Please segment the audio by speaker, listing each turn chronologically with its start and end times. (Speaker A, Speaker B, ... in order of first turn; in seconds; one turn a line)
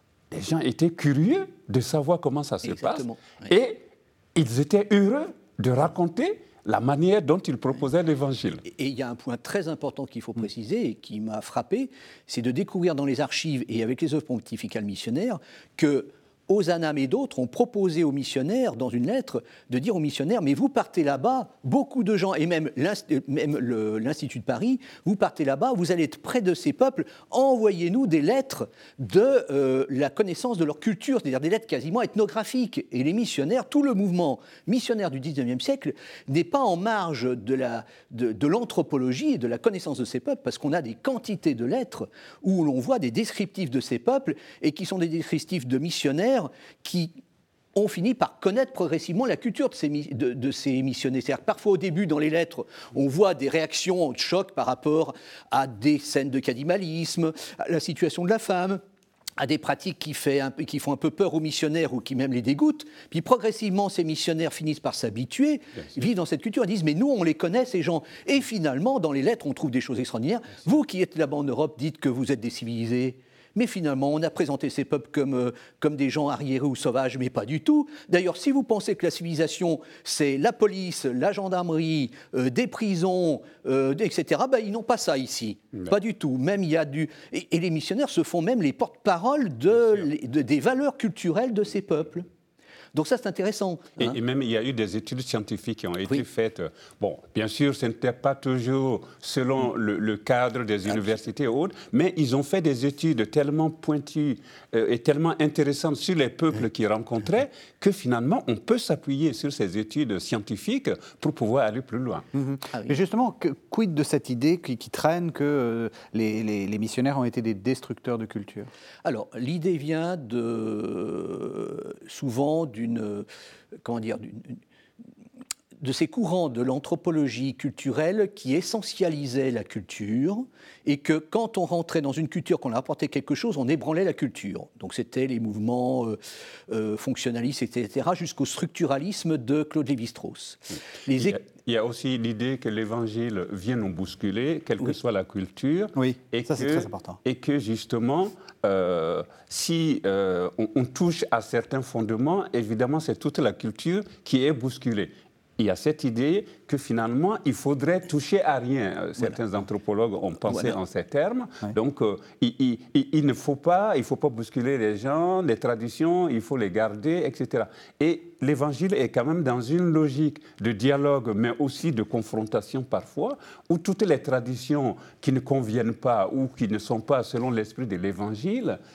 Speaker A: 0.3-8.6
Speaker B: 2.6-3.5
Speaker B: 8.7-47.1
Speaker B: 47.7-58.8
Speaker B: 59.4-92.3
Speaker B: 92.9-94.2
Speaker A: 94.0-112.2
Speaker C: 112.4-118.7
Speaker B: 119.0-123.3
Speaker B: 123.8-124.6
Speaker B: 125.8-141.4
Speaker A: 141.1-178.8
Speaker C: 145.9-147.2
Speaker B: 160.5-160.7